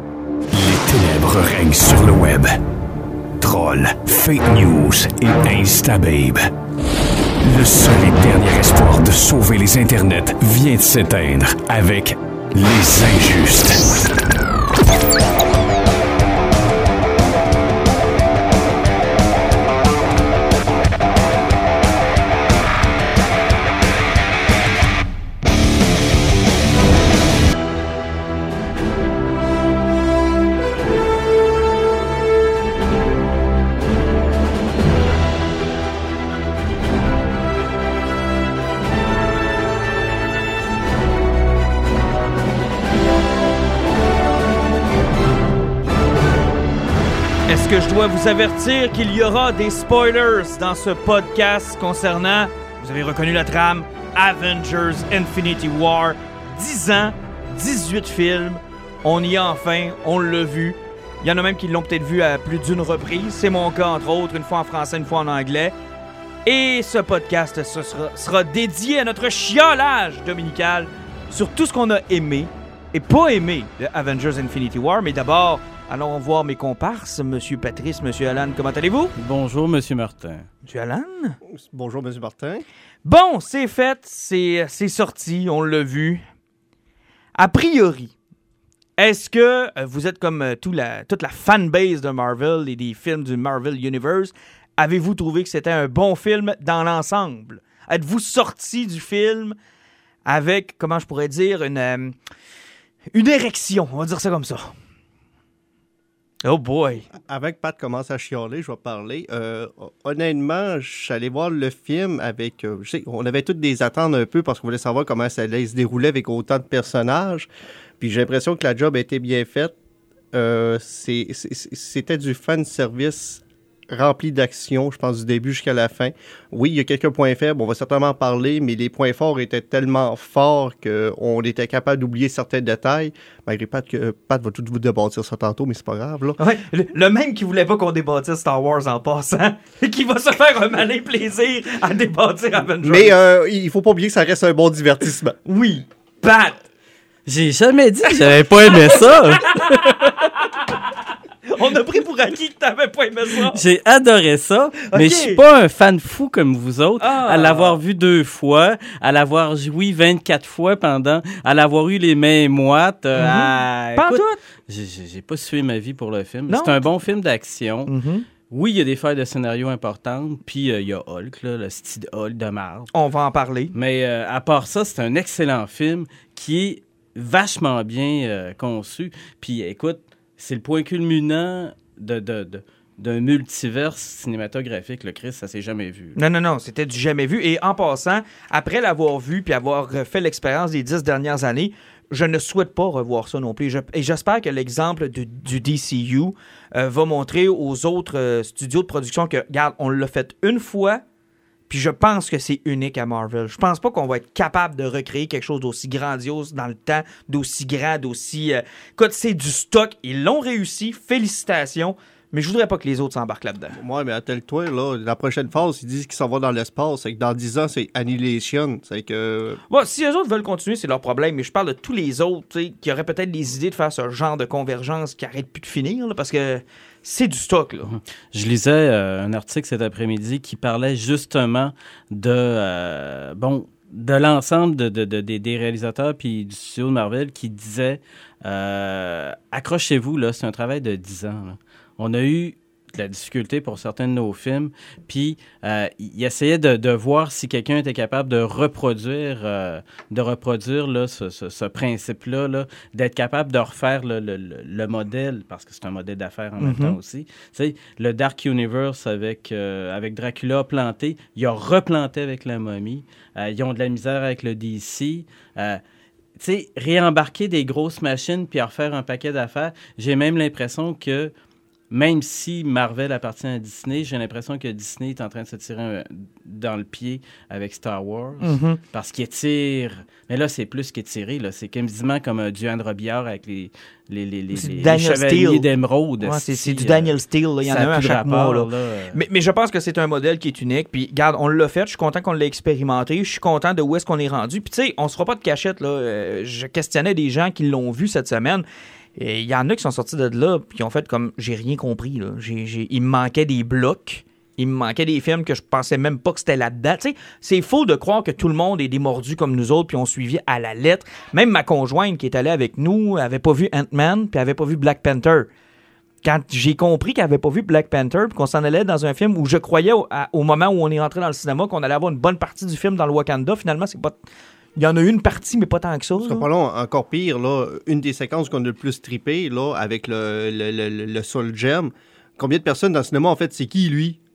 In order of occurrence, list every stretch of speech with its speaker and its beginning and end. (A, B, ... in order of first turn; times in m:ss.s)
0:00.5-0:02.5 A
0:03.4-0:06.5 A
0:07.4-0:13.9 A
0:47.5-1:05.7 B
1:06.4-1:19.1 B
1:19.2-1:20.5 C
1:20.6-1:21.4 B
1:21.4-1:22.6 D
1:23.0-1:26.2 B
1:27.4-1:28.1 B
1:29.0-1:39.6 B
1:40.2-1:42.2 B
1:43.1-1:44.7 B
1:46.4-1:47.1 B
1:47.1-1:57.5 D
1:58.0-1:59.7 D
2:00.3-2:16.4 D
2:16.4-2:23.1 B
2:22.8-2:25.4 D
2:25.4-2:26.6 B
2:27.2-2:30.3 C
2:28.3-2:30.8 B
2:31.5-2:33.6 B
2:33.3-2:47.9 C
2:34.9-2:35.4 B
2:37.0-2:37.8 B
2:43.2-2:44.4 B
2:46.5-2:46.8 B
2:47.9-2:48.2 B
2:48.5-2:52.9 C
2:52.9-2:53.7 B
2:53.7-3:06.2 C
3:06.2-3:21.0 B
3:21.7-3:33.8 B
3:33.8-3:39.6 D
3:39.7-3:48.0 B
3:47.9-4:25.8 C
4:16.6-4:17.0 B
4:26.4-4:31.3 C
4:31.9-4:47.1 C
4:38.4-4:38.8 B
4:44.5-4:45.6 B
4:46.2-4:58.6 B
4:47.6-4:49.2 C
4:59.2-5:15.5 B
5:16.2-5:24.1 B
5:24.8-5:26.4 B
5:26.2-5:34.2 D